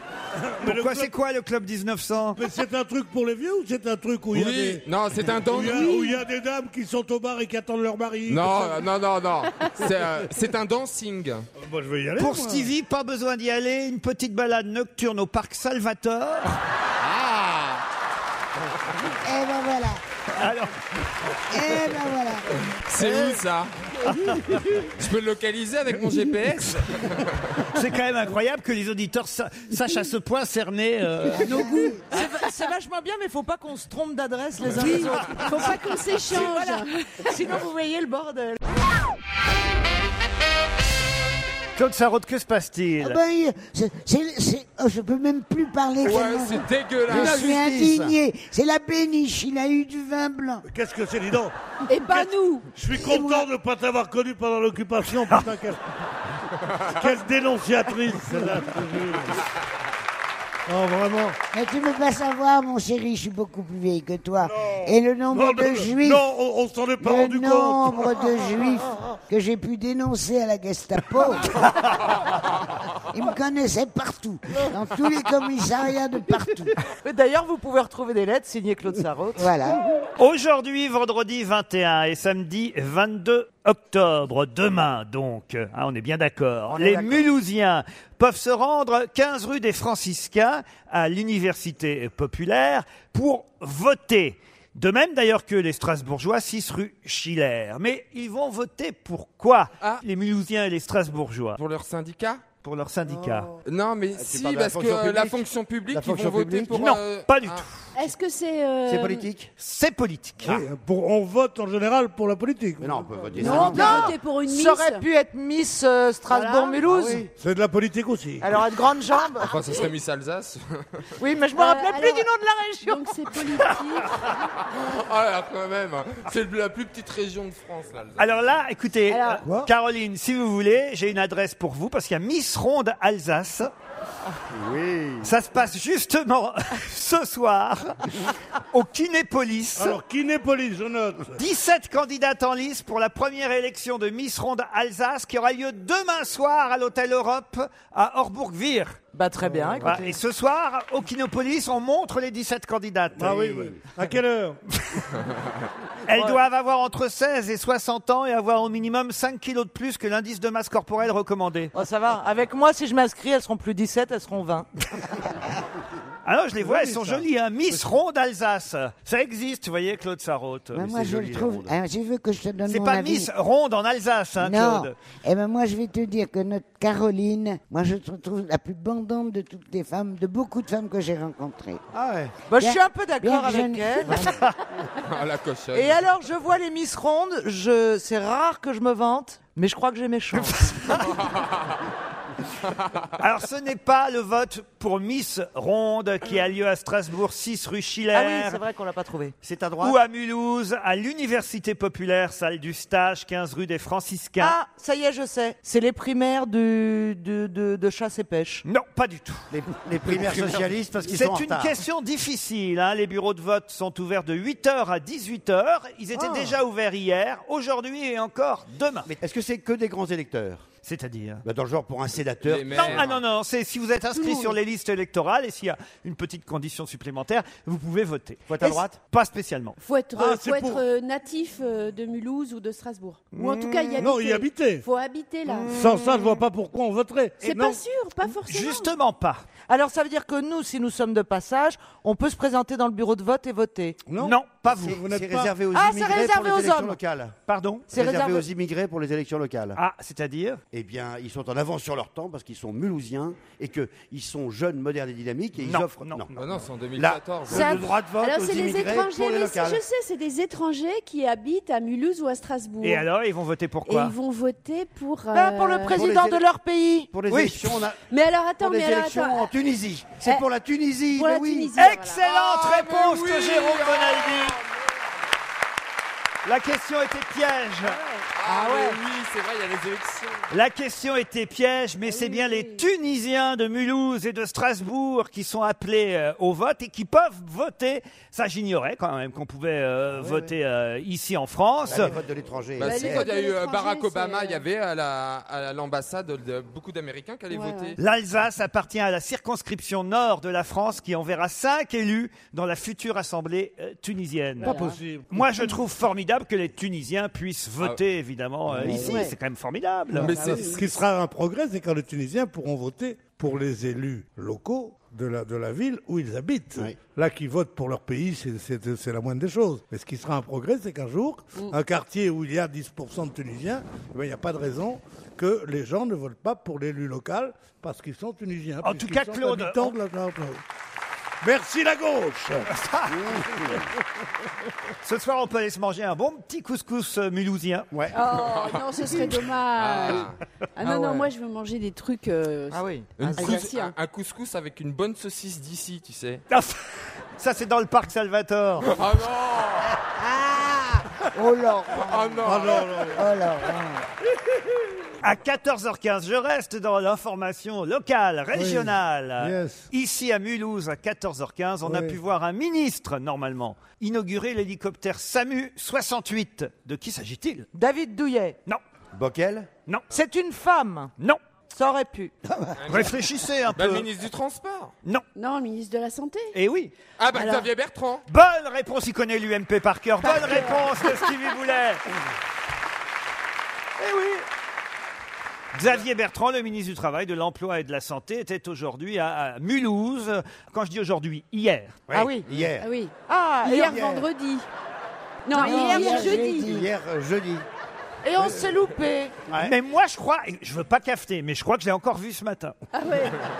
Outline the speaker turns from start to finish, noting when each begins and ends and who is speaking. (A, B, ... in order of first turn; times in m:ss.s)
0:00.4-0:01.1 A
0:00.6-0:02.4 B
0:02.4-0:08.8 A
0:04.3-0:06.0 C
0:05.6-0:06.2 D
0:08.3-0:11.5 C
0:11.6-0:12.7 A
0:12.2-0:16.5 B
0:17.0-0:17.8 C
0:19.2-0:20.0 E
0:20.4-0:20.7 B
0:21.5-0:22.6 E
0:22.8-0:23.7 C
0:24.6-0:27.6 C
0:27.7-0:31.6 B
0:31.4-0:32.3 D
0:31.5-0:31.9 E
0:32.1-0:38.6 F
0:34.7-0:37.4 D
0:41.8-0:43.2 B
0:43.0-0:50.6 E
0:46.0-0:47.5 C
0:47.1-0:48.1 G
0:50.7-0:51.5 A
0:51.9-0:52.7 D
0:52.1-0:55.8 A
0:52.9-0:53.5 E
0:56.8-0:59.4 A
1:00.7-1:01.4 A
1:01.5-1:06.2 E
1:05.3-1:08.3 A
1:07.0-1:11.5 E
1:13.1-1:16.7 E
1:17.0-1:19.5 F
1:19.4-1:19.8 E
1:20.2-1:41.6 B
1:26.7-1:27.2 F
1:41.6-1:42.4 C
1:42.6-1:43.5 B
1:43.1-1:43.4 A
1:43.6-1:47.6 C
1:44.1-1:46.8 G
1:46.7-1:47.9 B
1:47.9-1:49.3 D
1:48.8-1:49.5 G
1:49.6-1:50.6 B
1:50.4-1:53.7 A
1:52.8-1:54.1 G
1:53.4-1:55.1 D
1:53.4-1:57.3 F
1:56.3-1:56.8 D
1:56.8-1:57.3 G
1:57.3-1:58.5 A
1:58.4-1:59.5 F
1:59.4-2:01.1 C
2:01.2-2:03.1 F
2:01.5-2:02.3 D
2:02.8-2:04.3 D
2:04.7-2:08.3 C
2:08.2-2:13.7 B
2:09.1-2:09.4 D
2:14.5-2:15.3 G
2:15.2-2:18.0 B
2:18.7-2:20.0 B
2:19.8-2:21.4 A
2:21.4-2:29.0 B
2:29.1-2:30.1 F
2:29.4-2:30.0 A
2:29.8-2:33.6 B
2:33.2-2:34.6 A
2:36.1-2:41.7 B
2:36.1-2:36.4 F
2:41.7-2:44.7 F
2:46.2-2:50.8 B
2:46.6-2:47.2 A
2:50.7-2:53.3 E
2:50.7-2:51.7 G
2:52.7-2:54.9 B
2:54.4-3:01.8 E
3:01.9-3:02.3 G
3:02.5-3:04.2 F
3:02.6-3:04.4 E
3:05.0-3:06.0 C
3:05.7-3:11.0 F
3:12.8-3:13.0 C
3:13.2-3:18.6 B
3:18.1-3:19.3 F
3:19.4-3:20.0 G
3:19.8-3:24.6 B
3:24.4-3:28.6 F
3:28.6-3:29.5 B
3:29.5-3:31.8 G
3:30.3-3:39.1 B
3:39.1-3:40.6 G
3:40.8-3:41.4 B
3:41.4-3:43.0 G
3:42.4-3:43.2 C
3:42.7-3:49.8 B
3:44.2-3:44.5 D
3:48.5-3:48.9 G
3:49.8-3:55.8 D
3:50.1-3:50.8 A
3:53.3-3:53.9 B
3:53.9-3:54.8 A
3:55.7-3:57.8 A
3:57.4-3:58.9 D
3:58.4-3:59.4 B
3:59.7-4:04.0 F
4:04.0-4:05.5 A
4:04.2-4:05.0 B
4:04.8-4:07.4 G
4:05.7-4:07.0 F
4:07.5-4:07.9 B
4:07.9-4:08.5 F
4:07.9-4:09.8 G
4:09.8-4:10.6 B
4:10.7-4:16.3 G
4:15.6-4:16.4 B
4:16.3-4:17.9 C
4:17.0-4:19.8 G
4:17.5-4:17.9 F
4:18.2-4:23.0 D
4:22.8-4:24.1 B
4:23.8-4:26.0 D
4:25.3-4:27.4 F
4:25.9-4:26.4 G
4:27.1-4:28.0 G
4:28.1-4:29.5 D
4:28.6-4:31.7 G
4:31.1-4:32.2 D
4:31.7-4:34.6 B
4:32.2-4:34.6 C
4:36.4-4:38.0 B
4:38.0-4:38.2 D
4:38.4-4:40.4 C
4:38.4-4:39.0 F
4:40.5-4:52.1 B
4:42.1-4:42.8 D
4:51.9-4:53.2 G
4:52.8-4:58.0 C
4:52.8-4:54.6 D
4:57.5-4:57.9 D
4:58.0-5:10.3 B
5:04.6-5:05.7 A
5:04.6-5:05.0 D
5:08.8-5:09.3 E
5:08.9-5:09.4 D
5:10.2-5:10.8 C
5:10.4-5:10.7 F
5:10.4-5:10.8 D
5:10.4-5:30.6 A
5:28.8-5:29.9 B
5:31.4-5:32.7 A
5:32.7-5:33.4 B
5:35.0-5:37.9 B
5:38.1-5:42.8 D
5:38.2-5:40.4 C
5:40.8-5:41.3 F
5:42.7-5:43.6 F
5:43.2-5:46.4 C
5:43.4-5:43.9 D
5:46.5-5:48.9 B
5:48.8-5:49.9 C
5:50.1-5:54.0 E
5:51.9-5:52.8 C
5:52.4-5:53.2 A
5:55.2-6:07.7 B
5:58.5-5:59.9 A
6:01.8-6:02.2 A
6:07.7-6:08.6 F
6:09.1-6:09.7 G
6:10.1-6:11.1 F
6:11.7-6:12.3 F
6:12.8-6:13.2 C
6:12.9-6:14.1 B
6:13.7-6:14.9 C
6:15.3-6:16.5 D
6:16.5-6:16.9 B
6:17.2-6:18.2 C
6:17.3-6:17.7 D
6:18.3-6:22.0 B
6:20.2-6:21.2 D
6:24.0-6:24.4 B
6:25.7-6:32.0 B
6:32.1-6:32.9 G
6:32.1-6:32.5 F
6:32.8-6:34.7 D
6:33.3-6:34.1 F
6:33.8-6:34.2 G
6:35.4-6:36.7 D
6:35.5-6:36.5 F
6:35.5-6:36.9 E
6:36.5-6:37.6 G
6:38.2-6:39.4 F
6:39.5-6:39.7 G
6:39.6-6:42.7 B
6:42.9-6:43.4 D